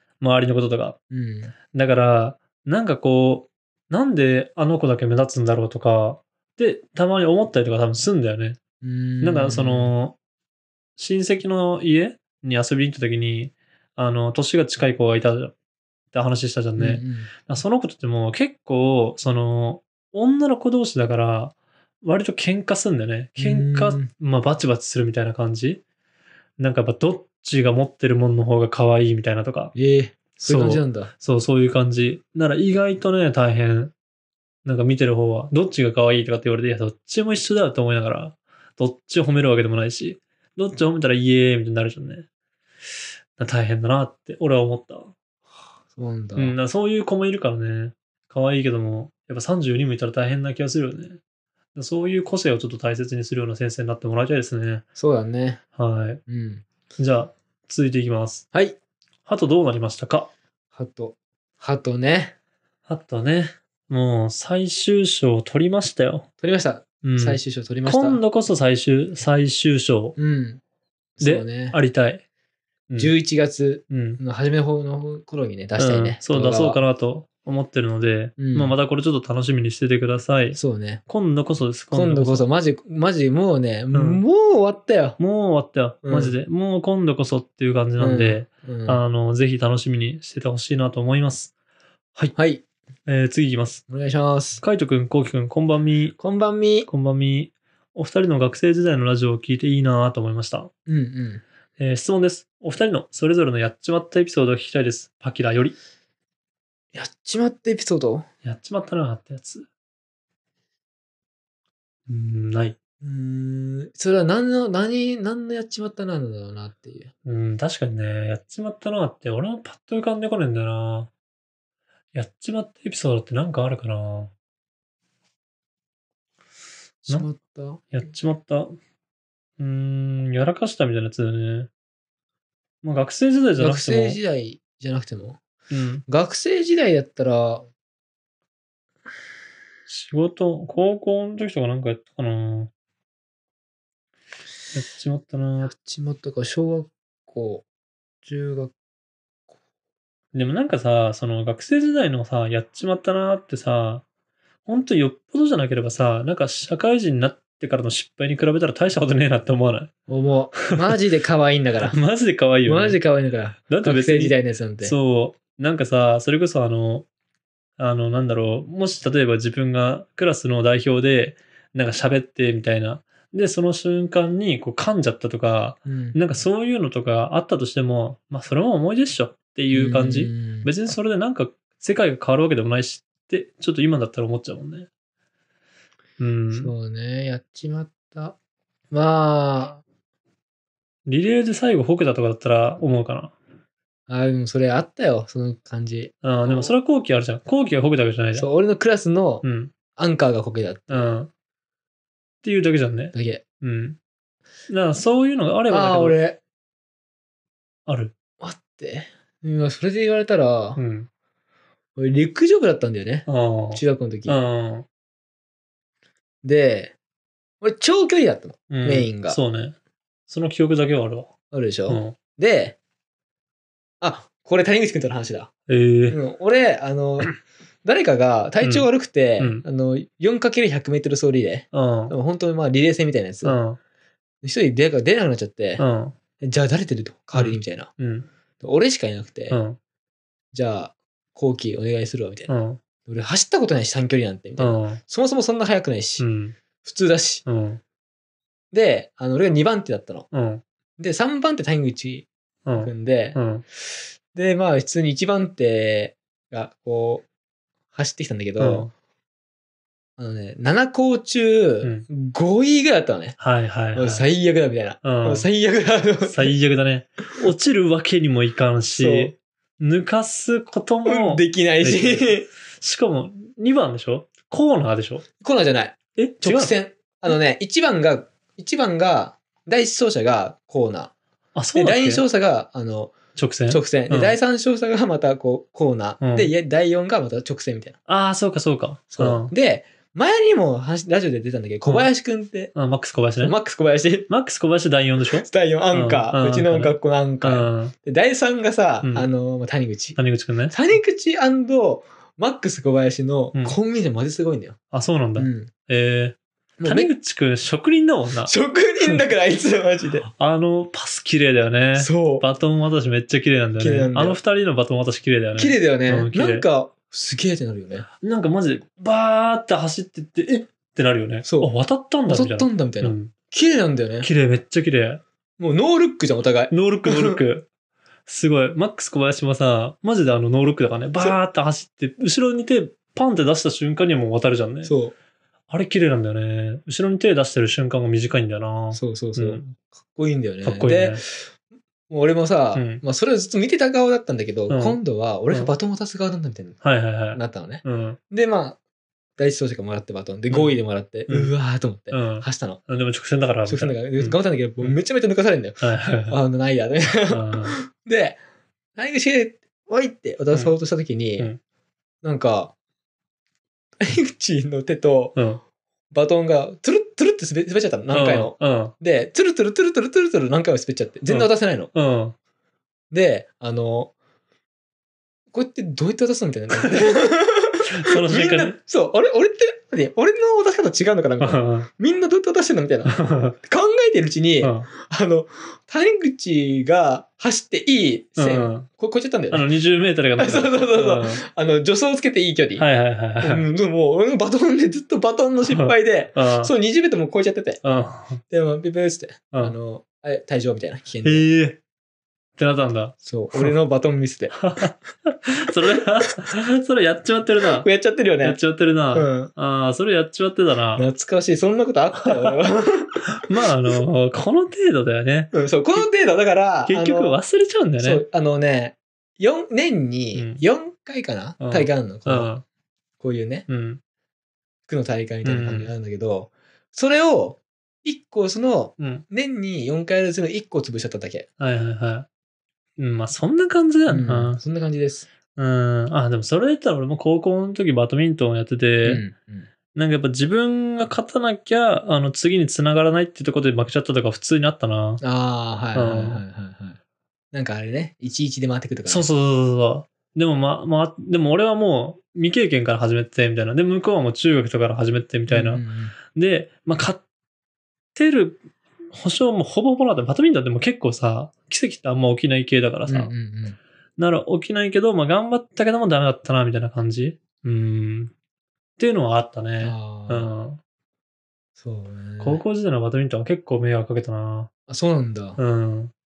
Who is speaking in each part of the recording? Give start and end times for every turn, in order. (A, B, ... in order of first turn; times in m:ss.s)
0:00.2-0:01.0 A
0:01.1-0:01.5 B
0:01.7-0:08.6 A
0:08.8-0:10.0 B
0:09.2-0:10.2 A
0:11.0-0:15.5 A
0:16.1-0:25.8 A
0:16.8-0:17.3 B
0:23.4-0:24.1 B
0:26.6-0:29.7 A
0:29.7-0:31.1 B
0:30.4-0:33.9 A
0:34.6-0:42.3 A
0:43.4-0:45.1 A
0:45.9-0:46.6 B
0:46.4-0:51.2 A
0:51.8-0:54.8 A
0:55.0-0:55.6 B
0:55.8-0:56.2 A
0:56.3-0:56.6 B
0:57.0-0:58.4 A
0:59.3-1:00.3 A
1:00.7-1:02.3 B
1:02.9-1:06.3 A
1:06.4-1:08.2 B
1:07.0-1:10.2 A
1:10.2-1:10.6 B
1:11.2-1:11.8 B
1:11.2-1:12.2 A
1:13.0-1:16.8 B
1:13.9-1:14.2 A
1:15.8-1:22.5 A
1:18.4-1:18.8 B
1:20.5-1:21.0 B
1:21.9-1:25.2 B
1:23.9-1:24.2 A
1:25.2-1:31.5 A
1:26.0-1:26.4 B
1:28.0-1:29.0 B
1:32.4-1:32.6 B
1:33.1-1:33.8 A
1:33.9-1:34.6 B
1:34.6-1:36.2 A
1:36.2-1:36.9 B
1:36.9-1:40.7 A
1:40.9-1:41.4 B
1:41.8-1:45.8 A
1:46.9-1:48.2 B
1:48.4-1:49.7 A
1:52.1-1:52.8 A
1:53.0-1:57.1 B
1:57.2-2:01.1 A
2:02.1-2:04.3 A
2:07.1-2:07.9 B
2:07.9-2:08.8 A
2:09.6-2:11.7 A
2:12.8-2:14.2 A
2:13.6-2:15.4 B
2:15.7-2:16.0 A
2:16.1-2:17.7 B
2:19.9-2:22.7 A
2:24.7-2:25.7 A
2:25.6-2:27.6 B
2:28.2-2:28.7 B
2:30.3-2:34.0 A
2:34.7-2:39.9 A
2:40.1-2:42.0 B
2:41.8-2:43.0 A
2:42.6-2:45.0 B
2:43.7-2:47.1 A
2:47.8-3:04.9 A
2:55.9-2:56.2 B
2:59.7-3:00.7 B
3:06.2-3:06.7 A
3:06.5-3:08.4 B
3:08.9-3:09.8 B
3:11.1-3:13.3 A
3:14.1-3:16.8 B
3:16.2-3:18.5 A
3:18.3-3:19.4 B
3:19.4-3:19.7 A
3:20.0-3:21.1 B
3:20.9-3:21.3 A
3:22.4-3:24.0 A
3:23.1-3:23.4 B
3:24.7-3:26.2 A
3:25.7-3:26.4 B
3:27.9-3:28.1 A
3:28.4-3:30.8 B
3:30.8-3:31.1 A
3:32.0-3:34.4 B
3:33.3-3:34.9 A
3:36.4-3:36.9 B
3:37.6-3:39.4 B
3:38.7-3:39.8 A
3:40.3-3:41.3 A
3:41.5-3:42.8 B
3:41.9-3:42.2 A
3:44.0-3:45.5 B
3:45.7-3:46.2 A
3:46.1-3:47.3 B
3:47.8-3:53.6 B
3:48.6-3:48.9 A
3:49.4-3:49.6 A
3:51.7-3:52.1 A
3:53.4-3:53.8 A
3:54.4-3:55.8 B
3:55.8-3:56.2 A
3:56.4-3:57.9 B
3:57.3-3:58.3 A
3:58.6-3:59.6 B
3:59.5-3:59.8 A
4:00.5-4:02.5 B
4:02.5-4:02.8 A
4:03.1-4:06.3 B
4:04.6-4:05.0 A
4:06.2-4:06.6 A
4:06.8-4:07.4 B
4:07.4-4:07.8 A
4:08.7-4:10.3 B
4:10.3-4:10.6 A
4:11.0-4:13.4 B
4:12.7-4:13.6 A
4:14.3-4:17.3 B
4:17.9-4:18.9 B
4:18.6-4:18.9 A
4:20.2-4:23.4 B
4:23.4-4:24.3 A
4:24.0-4:26.5 B
4:25.0-4:25.5 A
4:26.2-4:35.2 A
4:28.9-4:29.3 B
4:31.1-4:32.5 B
4:35.4-4:41.1 B
4:36.2-4:36.7 A
4:41.6-4:42.2 A
4:41.7-4:43.1 B
4:43.4-4:44.4 A
4:43.7-4:48.0 B
4:46.2-4:46.5 A
4:48.1-4:49.5 A
4:49.1-4:52.8 B
4:52.7-4:53.5 A
4:53.4-4:54.3 B
4:54.3-4:57.9 A
4:55.4-5:00.2 B
4:59.0-4:59.3 A
5:00.2-5:00.8 A
5:00.7-5:04.8 B
5:04.9-5:09.2 A
5:05.4-5:05.7 B
5:06.8-5:07.1 B
5:08.4-5:10.2 B
5:10.2-5:16.7 A
5:12.0-5:12.5 B
5:13.8-5:14.4 B
5:15.6-5:18.1 B
5:18.2-5:23.3 A
5:21.4-5:21.7 B
5:22.3-5:24.3 B
5:24.2-5:25.2 A
5:25.6-5:27.4 B
5:26.7-5:27.7 A
5:28.3-5:35.0 A
5:34.8-5:35.2 B
5:35.7-5:39.8 A
5:38.9-5:41.5 B
5:40.6-5:41.2 A
5:42.1-5:46.8 B
5:42.7-5:43.0 A
5:44.7-5:45.0 A
5:45.5-5:45.8 A
5:46.8-5:48.2 A
5:47.3-5:48.8 B
5:49.4-5:52.8 B
5:51.3-5:51.5 A
5:52.1-5:55.0 A
5:53.7-5:58.4 B
5:55.8-5:56.4 A
5:57.3-5:57.8 A
5:59.0-6:01.5 B
6:02.2-6:02.7 B
6:04.0-6:05.4 B
6:05.4-6:05.6 A
6:06.1-6:11.9 B
6:08.1-6:08.9 A
6:11.3-6:12.4 A
6:13.1-6:14.1 B
6:15.5-6:29.7 B
6:16.7-6:17.1 A
6:17.9-6:18.8 A
6:21.4-6:21.9 A
6:23.1-6:23.6 A
6:24.6-6:24.9 A
6:28.4-6:28.9 A
6:29.5-6:31.4 A
6:30.4-6:32.8 B
6:32.8-6:33.6 A
6:33.4-6:37.8 B
6:35.6-6:36.7 A
6:37.8-6:38.4 A
6:38.5-6:41.5 B
6:41.2-6:41.8 A
6:42.6-6:43.7 A
6:43.2-6:44.7 B
6:44.6-6:47.9 A
6:47.6-6:48.6 B
6:48.4-6:51.0 A
6:49.1-6:49.5 B
6:51.0-6:53.4 B
6:52.3-6:52.5 A
6:53.4-6:56.1 A
6:55.5-6:57.4 B
6:56.9-6:58.2 A
6:58.0-7:02.5 B
7:00.4-7:00.6 A
7:01.6-7:02.6 A
7:03.2-7:03.7 B
7:03.7-7:04.0 A
7:04.9-7:11.5 B
7:05.4-7:05.9 A
7:09.0-7:09.2 A
7:11.6-7:12.3 A
7:13.0-7:14.6 A
7:14.1-7:15.3 B
7:15.6-7:19.2 A
7:19.0-7:19.7 B
7:19.9-7:25.2 A
7:25.2-7:27.0 B
7:25.9-7:26.4 A
7:27.5-7:29.3 B
7:29.1-7:37.2 A
7:35.5-7:36.2 B
7:38.2-7:43.3 A
7:43.1-7:43.8 B
7:44.2-7:48.3 A
7:49.0-7:50.8 A
7:49.8-7:50.5 B
7:51.8-7:52.6 B
7:52.4-7:54.7 A
7:54.9-7:55.6 B
7:55.6-7:56.1 A